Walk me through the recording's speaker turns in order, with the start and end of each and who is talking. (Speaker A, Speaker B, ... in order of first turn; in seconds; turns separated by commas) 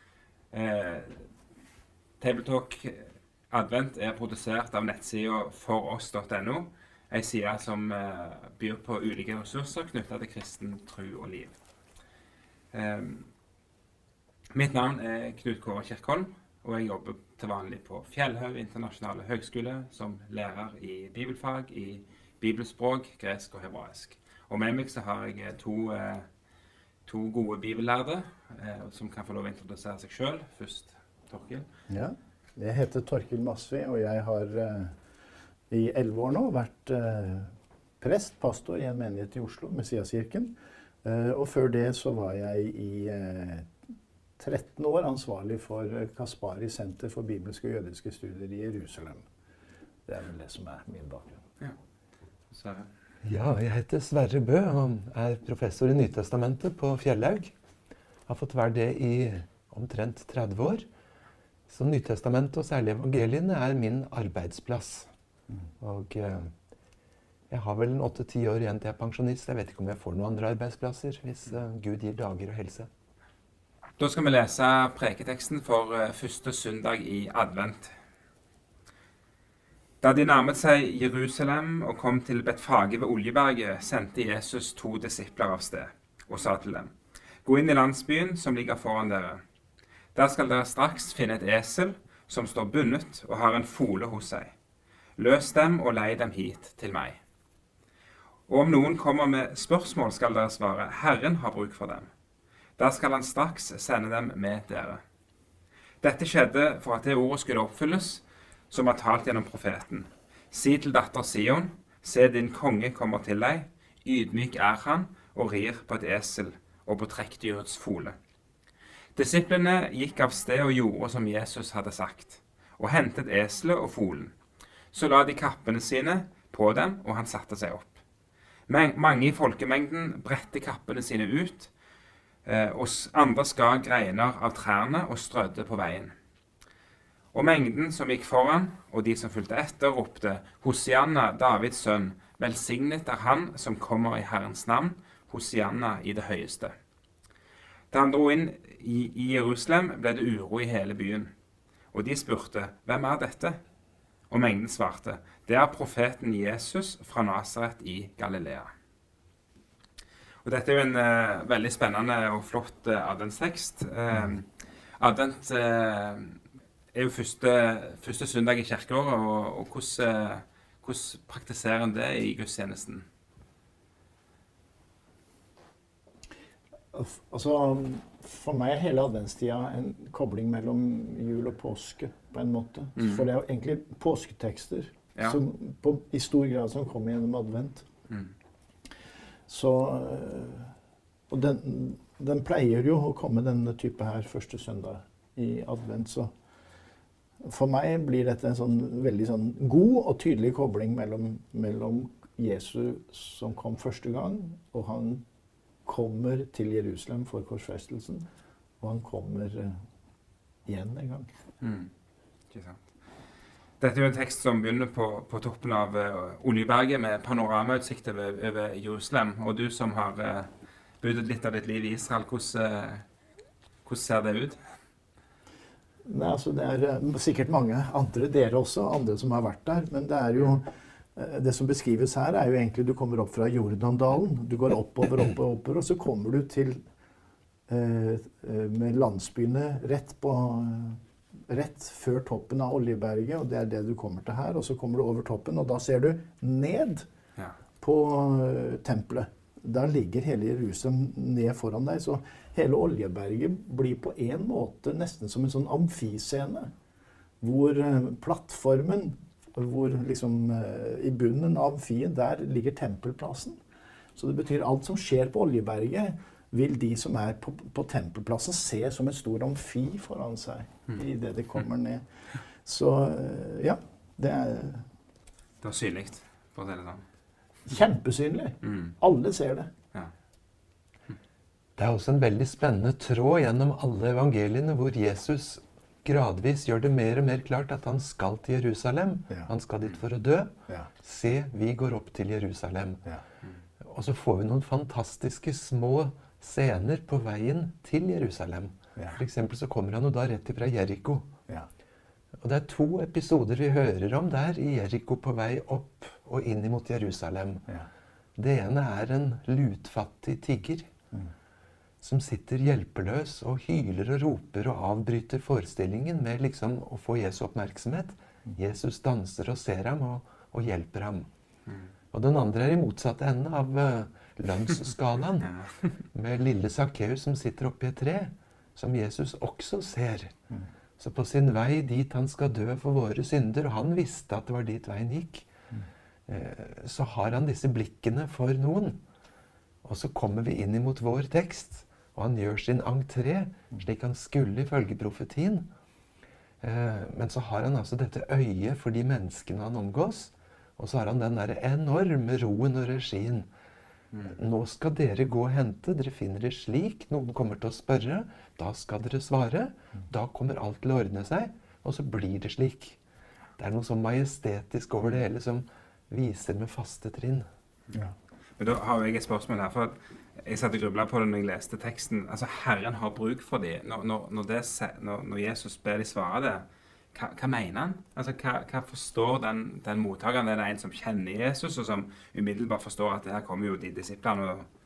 Speaker A: 0.5-1.2, Speaker A: 2.2-11.5, Speaker A: 12.7-13.3, Speaker A: 14.5-26.3, Speaker A: 27.1-31.7, Speaker B: 31.9-34.9, Speaker B: 35.7-43.7, Speaker B: 44.4-49.2, Speaker B: 50.1-51.4, Speaker A: 52.5-52.9, Speaker C: 53.2-57.5, Speaker C: 58.3-60.9, Speaker C: 61.7-65.1, Speaker C: 65.8-66.5, Speaker C: 67.5-72.9, Speaker A: 74.0-78.0, Speaker A: 80.0-86.9, Speaker A: 87.5-89.4, Speaker A: 90.2-94.5, Speaker A: 95.2-97.2, Speaker A: 98.5-102.1, Speaker A: 102.8-105.0, Speaker A: 106.0-118.2, Speaker A: 119.2-124.3, Speaker A: 124.9-128.0, Speaker A: 128.7-131.7, Speaker A: 132.4-136.1, Speaker A: 137.3-146.7, Speaker A: 147.9-151.3, Speaker A: 151.9-153.6, Speaker A: 154.3-158.7, Speaker A: 160.4-164.5, Speaker A: 165.0-166.4, Speaker A: 166.9-173.1, Speaker B: 176.9-187.9, Speaker A: 183.0-183.3, Speaker B: 189.5-190.7, Speaker B: 191.3-196.3, Speaker B: 197.4-205.2, Speaker B: 205.9-208.2, Speaker B: 208.8-209.8, Speaker B: 210.7-211.3, Speaker A: 211.6-211.9, Speaker A: 212.5-212.8, Speaker A: 213.8-220.5, Speaker A: 221.0-223.0, Speaker A: 223.8-224.6, Speaker B: 226.1-236.8, Speaker B: 237.7-247.1, Speaker B: 247.8-256.7, Speaker B: 257.4-263.6, Speaker B: 264.2-272.0, Speaker B: 272.6-274.9, Speaker A: 275.6-277.0, Speaker B: 277.7-279.7, Speaker A: 278.6-279.0, Speaker C: 281.8-293.0, Speaker C: 293.8-301.3, Speaker B: 299.0-299.2, Speaker C: 302.4-307.6, Speaker C: 308.4-310.9, Speaker C: 312.0-321.3, Speaker C: 322.1-325.5, Speaker A: 325.4-326.0, Speaker C: 326.1-330.3, Speaker C: 331.0-335.5, Speaker C: 336.3-339.0, Speaker C: 339.8-345.7, Speaker C: 346.6-353.5, Speaker C: 354.2-363.0, Speaker C: 363.6-367.5, Speaker A: 368.6-384.7